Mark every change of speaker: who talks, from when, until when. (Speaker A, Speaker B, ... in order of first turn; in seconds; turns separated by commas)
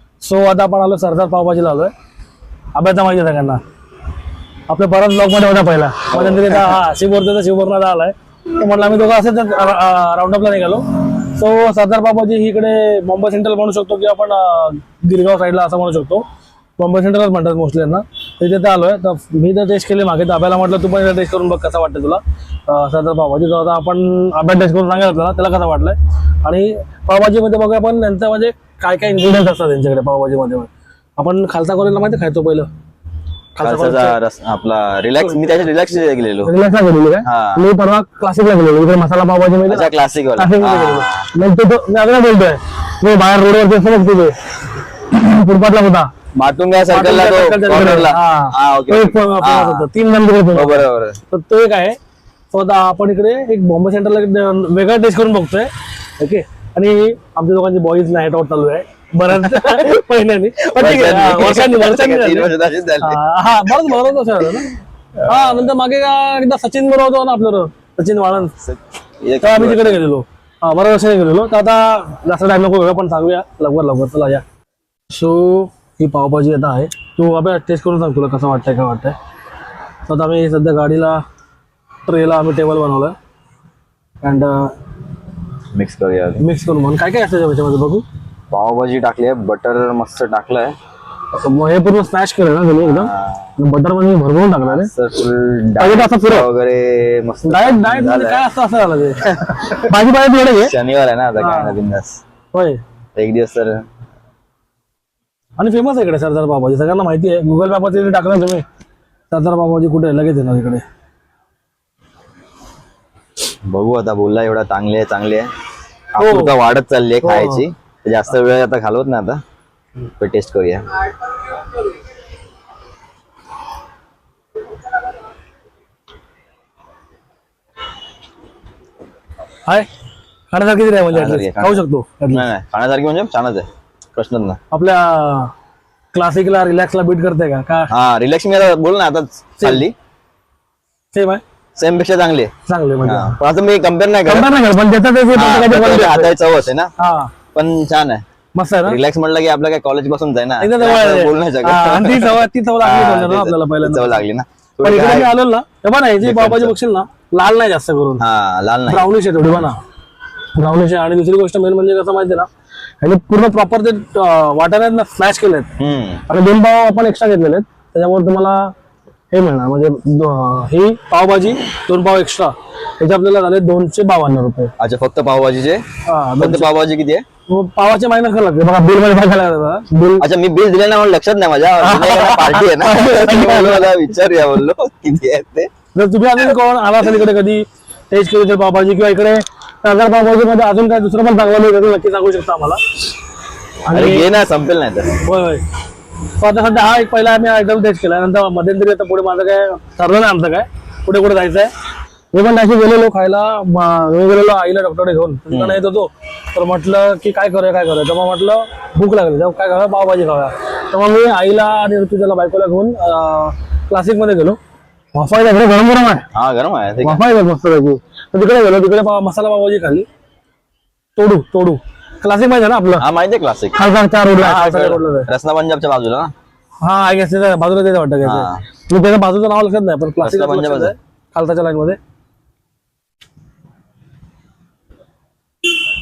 Speaker A: 0.2-1.9, Speaker A: 2.7-3.6, Speaker A: 4.7-16.2, Speaker B: 6.1-6.7, Speaker A: 16.8-32.7, Speaker A: 33.5-34.2, Speaker B: 33.6-36.5, Speaker A: 35.2-35.7, Speaker A: 36.4-44.4, Speaker B: 37.2-37.6, Speaker B: 39.6-41.3, Speaker A: 45.0-46.1, Speaker B: 46.4-49.9, Speaker A: 46.9-52.0, Speaker B: 50.5-51.2, Speaker A: 52.5-68.5, Speaker B: 60.7-63.2, Speaker B: 65.2-65.6, Speaker B: 68.6-70.0, Speaker A: 69.4-74.4, Speaker A: 75.1-79.1, Speaker A: 80.0-81.2, Speaker A: 82.0-83.1, Speaker A: 84.2-84.7, Speaker B: 85.7-86.4, Speaker A: 86.4-88.0, Speaker B: 88.5-90.7, Speaker A: 91.3-94.9, Speaker B: 92.8-93.5, Speaker B: 94.6-98.4, Speaker A: 95.8-96.5, Speaker A: 97.4-100.7, Speaker B: 99.4-99.7, Speaker B: 100.6-102.2, Speaker A: 101.4-101.8, Speaker A: 102.5-102.8, Speaker B: 103.2-103.8, Speaker A: 105.6-108.6, Speaker A: 109.3-110.8, Speaker B: 113.7-115.5, Speaker B: 116.1-119.4, Speaker A: 116.2-116.5, Speaker A: 117.2-117.6, Speaker B: 120.2-120.8, Speaker A: 130.5-132.5, Speaker B: 131.1-134.6, Speaker A: 134.7-135.5, Speaker A: 136.1-137.9, Speaker B: 137.9-139.9, Speaker A: 139.6-139.8, Speaker A: 141.1-141.4, Speaker B: 141.8-142.5, Speaker A: 142.7-143.4, Speaker B: 143.0-144.5, Speaker A: 144.2-146.3, Speaker B: 145.3-146.9, Speaker A: 147.0-147.3, Speaker B: 147.5-148.2, Speaker A: 148.6-149.0, Speaker B: 148.8-155.3, Speaker A: 150.6-154.2, Speaker A: 154.8-158.2, Speaker B: 156.2-156.7, Speaker B: 158.2-159.1, Speaker A: 158.9-159.8, Speaker A: 160.5-162.5, Speaker A: 163.0-165.7, Speaker B: 165.8-166.2, Speaker A: 166.3-168.7, Speaker A: 169.3-174.7, Speaker B: 174.8-175.8, Speaker A: 176.1-176.7, Speaker B: 176.4-177.2, Speaker A: 177.5-180.2, Speaker B: 180.2-185.7, Speaker A: 181.8-183.9, Speaker A: 185.9-192.8, Speaker A: 193.9-194.3, Speaker B: 193.9-195.2, Speaker A: 195.2-195.6, Speaker A: 196.3-201.7, Speaker A: 202.3-214.6, Speaker B: 205.5-205.8, Speaker A: 215.1-216.3, Speaker B: 216.3-217.2, Speaker A: 217.0-220.1, Speaker A: 221.2-223.0, Speaker B: 223.0-223.8, Speaker A: 223.7-225.3, Speaker B: 224.3-226.3, Speaker A: 226.8-232.0, Speaker B: 228.2-228.6, Speaker B: 230.2-230.9